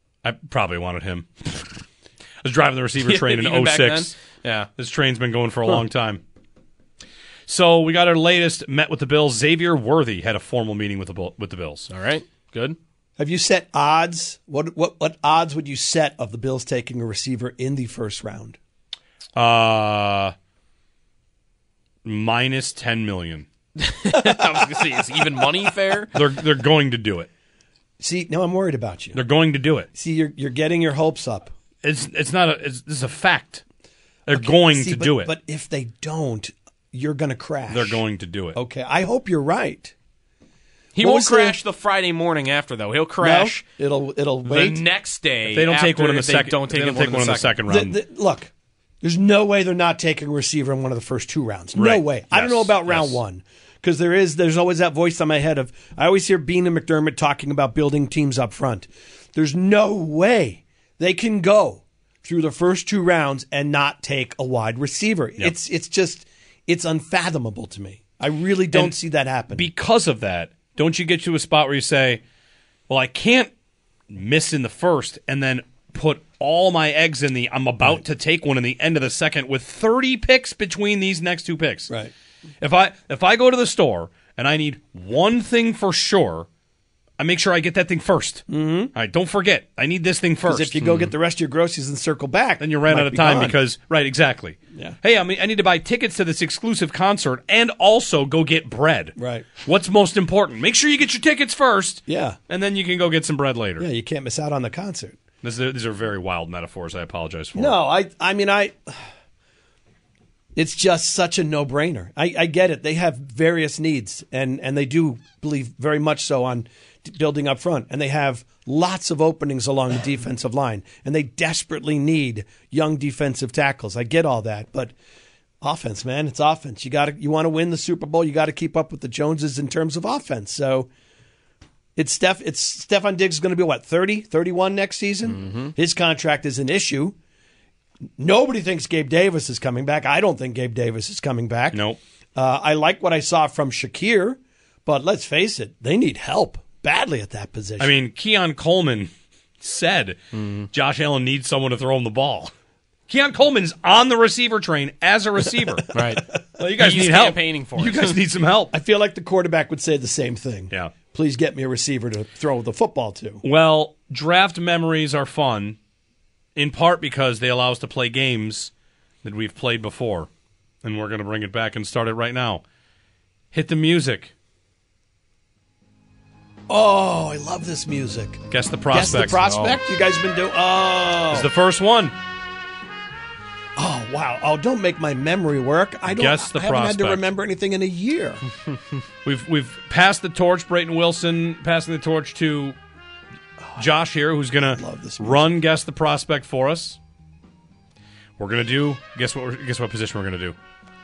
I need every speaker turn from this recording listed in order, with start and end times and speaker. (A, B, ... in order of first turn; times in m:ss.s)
0:00.2-0:01.8 A
0:02.4-0:04.1 A
0:03.1-0:04.7 B
0:04.8-0:06.2 A
0:07.5-0:11.9 A
0:11.9-0:12.8 B
0:13.2-0:18.6 C
0:19.4-0:20.3 A
0:22.0-0:23.5 A
0:23.8-0:26.1 B
0:26.1-0:27.3 A
0:28.0-0:29.2 C
0:29.1-0:29.9 A
0:29.9-0:31.5 C
0:31.8-0:33.6 A
0:34.3-0:35.3 A
0:34.3-0:38.0 C
0:37.7-0:38.6 A
0:38.5-0:39.9 C
0:41.0-0:43.6 B
0:41.0-0:41.6 C
0:43.2-0:44.8 C
0:44.4-0:47.5 B
0:45.5-0:48.0 A
0:47.7-0:48.5 C
0:49.0-1:09.7 C
0:51.8-0:53.2 A
1:09.5-1:12.2 A
1:12.9-1:13.5 A
1:14.1-1:21.9 A
1:22.6-1:26.5 A
1:27.2-1:30.8 A
1:28.5-1:28.9 C
1:30.5-1:33.6 C
1:30.8-1:31.1 B
1:32.6-1:43.9 A
1:39.2-1:39.5 C
1:42.1-1:42.4 C
1:43.8-1:45.2 C
1:45.4-1:47.8 A
1:47.6-1:49.0 C
1:50.6-2:04.9 C
2:05.6-2:10.9 C
2:12.0-2:17.2 C
2:15.3-2:15.7 B
2:18.2-2:21.8 C
2:21.7-2:22.0 A
2:22.4-2:28.0 C
2:27.8-2:29.1 A
2:29.6-2:30.2 A
2:30.3-2:30.7 B
2:30.7-2:32.5 A
2:33.1-2:36.0 A
2:35.9-2:38.2 B
2:36.6-2:38.7 A
2:38.7-2:43.4 C
2:43.4-2:45.8 A
2:46.6-2:48.7 A
2:49.2-2:50.3 A
2:50.8-2:52.6 A
2:53.5-2:54.3 A
2:56.7-3:01.5 C
2:58.5-2:59.8 A
3:01.3-3:02.2 A
3:03.8-3:08.4 C
3:06.1-3:07.3 A
3:09.2-3:12.8 A
3:13.6-3:13.9 C
3:13.8-3:17.0 A
3:14.7-3:15.5 C
3:18.4-3:20.6 A